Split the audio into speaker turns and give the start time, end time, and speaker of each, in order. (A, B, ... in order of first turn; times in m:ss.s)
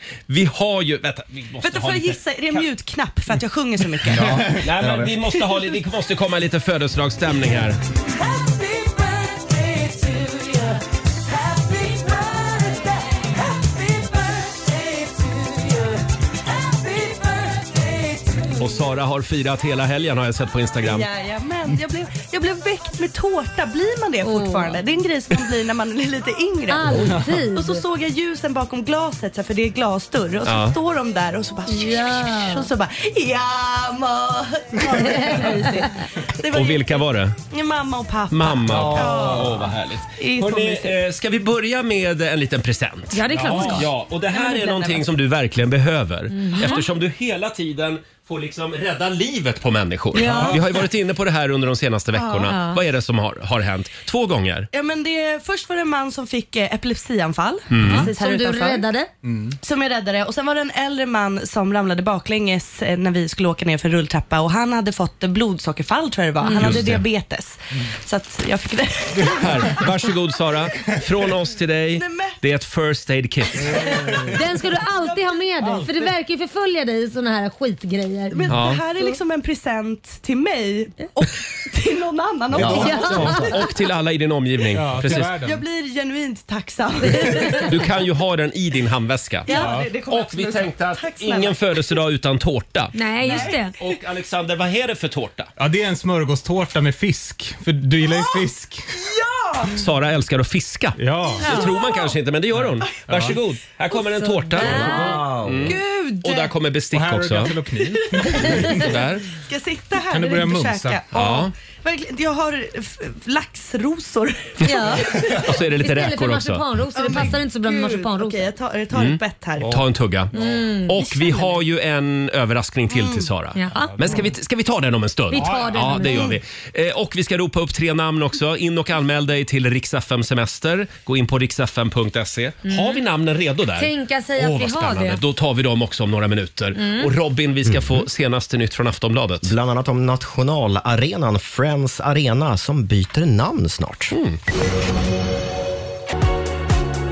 0:00.3-0:02.6 A
0:01.6-0:04.6 B
0:04.1-0:05.2 C
0:04.6-0:07.8 A
0:08.3-0:10.8 B
0:11.4-0:15.7 B
0:16.7-0:18.4 B
0:18.6-0:21.1 A
0:20.8-0:41.0 B
0:24.2-0:24.8 D
0:26.7-0:27.8 D
0:30.4-0:30.8 A
0:31.7-0:32.7 D
0:35.0-0:35.6 D
0:36.5-0:37.4 A
0:38.3-0:54.7 A
0:38.7-0:39.5 C
0:43.1-0:43.9 D
0:43.4-0:43.8 E
0:44.3-0:45.1 B
0:46.3-0:46.8 D
0:50.1-0:50.6 D
0:50.2-0:50.6 E
0:52.2-0:52.5 B
0:52.3-0:52.8 D
0:54.7-0:58.9 B
0:57.7-0:58.1 A
0:57.8-0:59.1 D
0:59.2-0:59.6 E
0:59.6-1:09.8 B
1:06.4-1:06.7 D
1:06.6-1:07.0 A
1:09.3-1:13.8 A
1:11.9-1:12.3 B
1:13.8-1:14.4 E
1:14.3-1:18.4 D
1:15.6-1:16.1 E
1:18.3-1:23.5 B
1:18.5-1:18.8 A
1:22.5-1:23.5 C
1:22.6-1:23.4 E
1:22.7-1:23.6 D
1:23.3-1:25.3 A
1:24.7-1:25.6 E
1:25.1-1:27.8 B
1:27.6-1:35.5 A
1:29.4-1:32.0 B
1:29.5-1:29.9 E
1:32.9-1:33.7 D
1:33.2-1:33.8 B
1:35.6-1:38.8 E
1:39.0-1:39.8 B
1:39.8-1:47.6 A
1:41.0-1:41.5 E
1:41.4-1:41.7 D
1:41.6-1:42.1 B
1:42.6-1:43.4 E
1:43.9-1:45.3 D
1:44.6-1:45.8 C
1:45.6-1:46.5 B
1:46.9-1:49.0 E
1:47.9-1:55.5 B
1:48.4-1:49.2 A
1:50.1-1:51.0 E
1:51.1-1:51.5 A
1:54.6-1:58.5 D
1:55.3-1:56.6 A
1:56.9-1:59.8 B
1:58.9-2:19.5 A
2:00.3-2:01.0 D
2:01.0-2:01.6 B
2:02.9-2:03.3 B
2:03.6-2:04.1 D
2:03.7-2:04.3 E
2:05.3-2:06.3 D
2:05.3-2:06.2 E
2:12.6-2:13.0 D
2:13.8-2:15.2 D
2:16.8-2:17.1 D
2:19.4-2:24.2 C
2:24.1-2:24.4 A